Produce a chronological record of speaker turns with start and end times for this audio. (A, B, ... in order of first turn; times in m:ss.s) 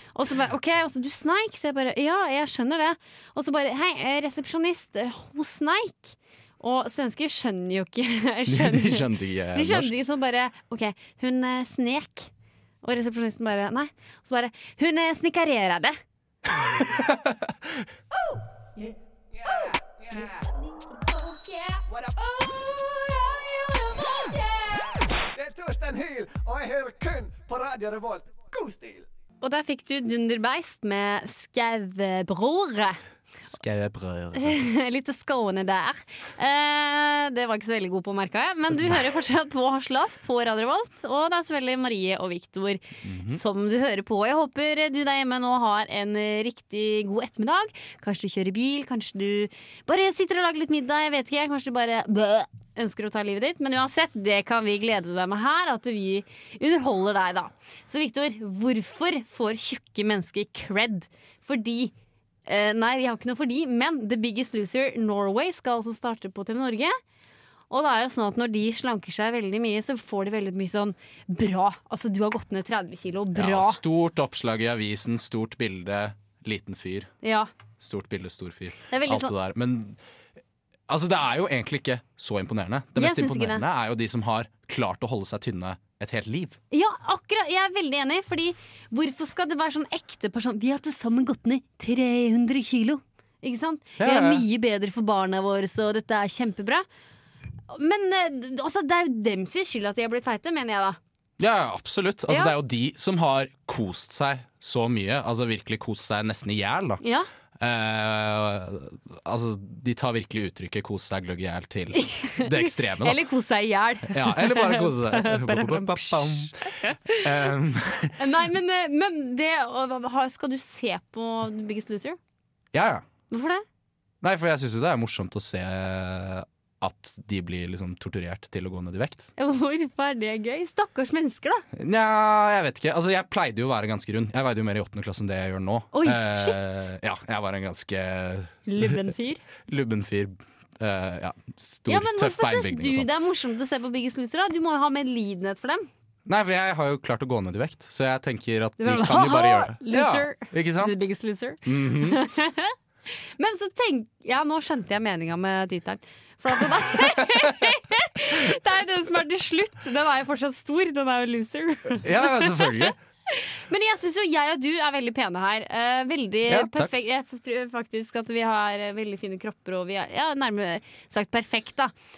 0:00.1-0:12.3 A
0:08.5-0:10.0 B
0:12.8-0:16.0 A
0:17.0-0:17.8 B
0:19.4-0:20.5 C
0:21.2-0:24.8 A
0:21.9-0:22.2 C
0:25.3-0:29.1 C
0:29.4-0:33.0 A
0:33.5-0:34.5 B
0:34.4-1:01.9 A
0:43.0-0:43.4 B
1:02.5-1:07.0 A
1:07.7-1:13.8 A
1:13.4-1:17.1 B
1:17.2-1:17.5 A
1:17.8-1:20.0 B
1:18.9-1:19.3 A
1:20.9-1:26.6 B
1:23.0-1:23.6 A
1:26.7-1:36.8 A
1:34.0-1:34.4 B
1:37.7-1:41.0 A
1:41.4-1:47.0 B
1:42.3-1:42.6 A
1:47.0-1:47.3 A
1:47.6-1:53.2 B
1:52.0-1:57.3 A
1:54.1-1:56.5 B
1:57.1-1:58.2 B
1:58.2-2:02.2 A
2:02.7-2:03.1 B
2:03.3-2:03.6 A
2:04.2-2:09.3 B
2:09.4-2:11.7 A
2:11.7-2:19.1 B
2:15.9-2:16.6 A
2:18.7-2:19.4 A
2:19.6-2:23.1 B
2:21.9-2:25.9 A
2:26.3-2:31.0 B
2:28.8-2:32.7 A
2:31.6-2:32.2 B
2:33.4-2:51.9 A
2:42.0-2:43.0 B
2:46.5-2:46.9 B